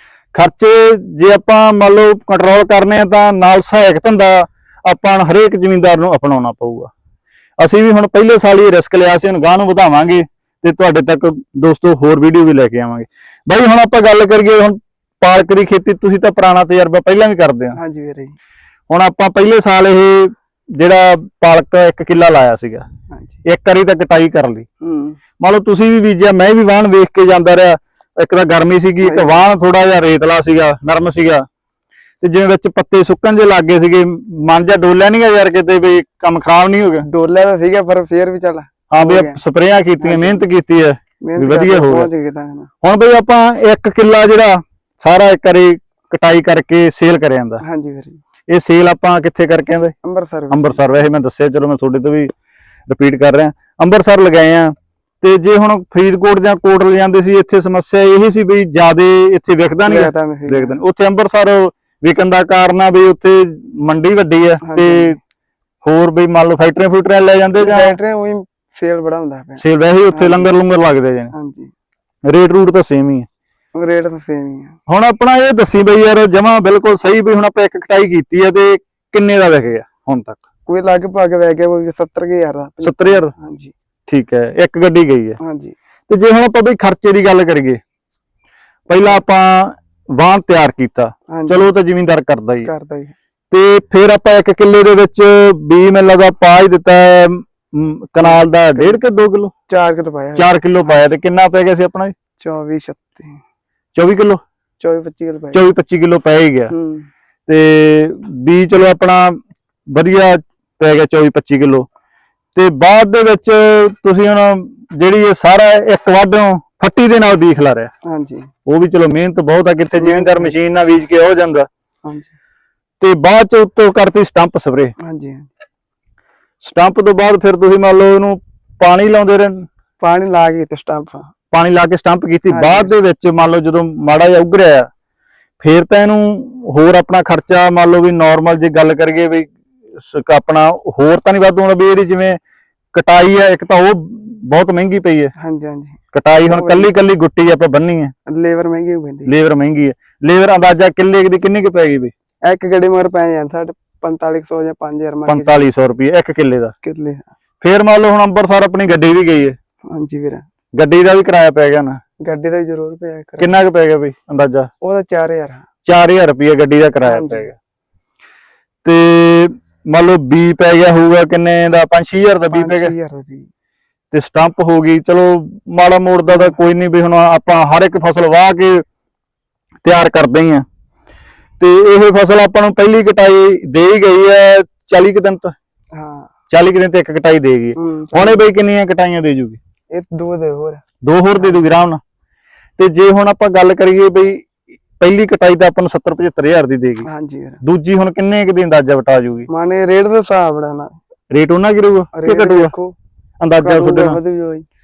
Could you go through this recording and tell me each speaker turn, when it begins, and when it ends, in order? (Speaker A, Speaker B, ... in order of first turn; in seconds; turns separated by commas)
Speaker A: 0.3-6.9, Speaker A: 7.6-17.8, Speaker B: 17.7-18.4, Speaker A: 18.9-22.8, Speaker B: 23.1-23.4, Speaker A: 23.4-24.7, Speaker B: 24.8-25.2, Speaker A: 25.4-31.4, Speaker B: 29.0-29.4, Speaker A: 32.2-37.0, Speaker B: 37.1-39.4, Speaker A: 38.9-42.1, Speaker B: 40.0-40.4, Speaker B: 41.2-42.7, Speaker A: 42.8-47.6, Speaker B: 47.6-48.2, Speaker A: 48.5-49.9, Speaker B: 50.0-50.8, Speaker A: 50.5-52.3, Speaker A: 52.9-65.2, Speaker B: 59.9-60.8, Speaker B: 64.6-65.2, Speaker A: 65.8-68.0, Speaker B: 67.6-70.5, Speaker A: 69.6-71.3, Speaker B: 71.3-71.7, Speaker A: 72.3-73.3, Speaker B: 73.7-74.8, Speaker A: 74.9-80.4, Speaker B: 80.7-83.7, Speaker A: 82.8-83.3, Speaker A: 84.1-85.4, Speaker B: 85.4-85.7, Speaker A: 86.1-87.8, Speaker A: 88.9-92.7, Speaker B: 91.3-91.7, Speaker B: 92.6-93.1, Speaker A: 93.5-99.5, Speaker B: 98.2-99.0, Speaker B: 99.7-101.1, Speaker A: 100.3-102.1, Speaker B: 102.4-103.4, Speaker A: 104.0-104.4, Speaker B: 104.8-105.6, Speaker A: 105.5-106.7, Speaker B: 106.7-107.1, Speaker A: 107.5-109.4, Speaker A: 109.9-111.9, Speaker A: 112.5-117.9, Speaker B: 118.0-118.5, Speaker A: 118.7-121.7, Speaker B: 120.0-120.5, Speaker B: 122.0-122.3, Speaker A: 123.0-124.9, Speaker B: 125.0-125.5, Speaker A: 126.6-129.7, Speaker B: 130.0-131.3, Speaker A: 131.5-134.9, Speaker B: 132.5-132.9, Speaker A: 135.6-139.5, Speaker A: 140.0-142.4, Speaker A: 142.9-145.3, Speaker B: 145.4-146.0, Speaker A: 146.1-148.1, Speaker B: 146.5-146.9, Speaker B: 148.3-149.3, Speaker A: 149.3-152.1, Speaker B: 152.4-155.7, Speaker A: 155.3-156.7, Speaker B: 156.8-157.2, Speaker A: 157.6-159.5, Speaker B: 159.9-160.4, Speaker A: 160.8-162.0, Speaker B: 162.2-163.5, Speaker A: 163.4-164.7, Speaker B: 164.8-165.6, Speaker A: 165.8-167.5, Speaker B: 167.0-167.5, Speaker A: 168.8-172.9, Speaker B: 172.5-173.5, Speaker A: 174.1-178.8, Speaker B: 176.3-176.5, Speaker A: 179.8-180.6, Speaker A: 181.6-185.5, Speaker B: 185.9-186.3, Speaker A: 186.5-189.6, Speaker B: 187.8-188.4, Speaker B: 189.9-190.8, Speaker A: 191.0-192.0, Speaker B: 191.4-191.7, Speaker A: 192.8-194.5, Speaker A: 195.0-197.1, Speaker B: 197.1-197.6, Speaker A: 197.6-199.5, Speaker B: 199.5-201.0, Speaker A: 201.3-202.7, Speaker B: 202.1-203.0, Speaker A: 203.4-204.2, Speaker B: 203.6-204.6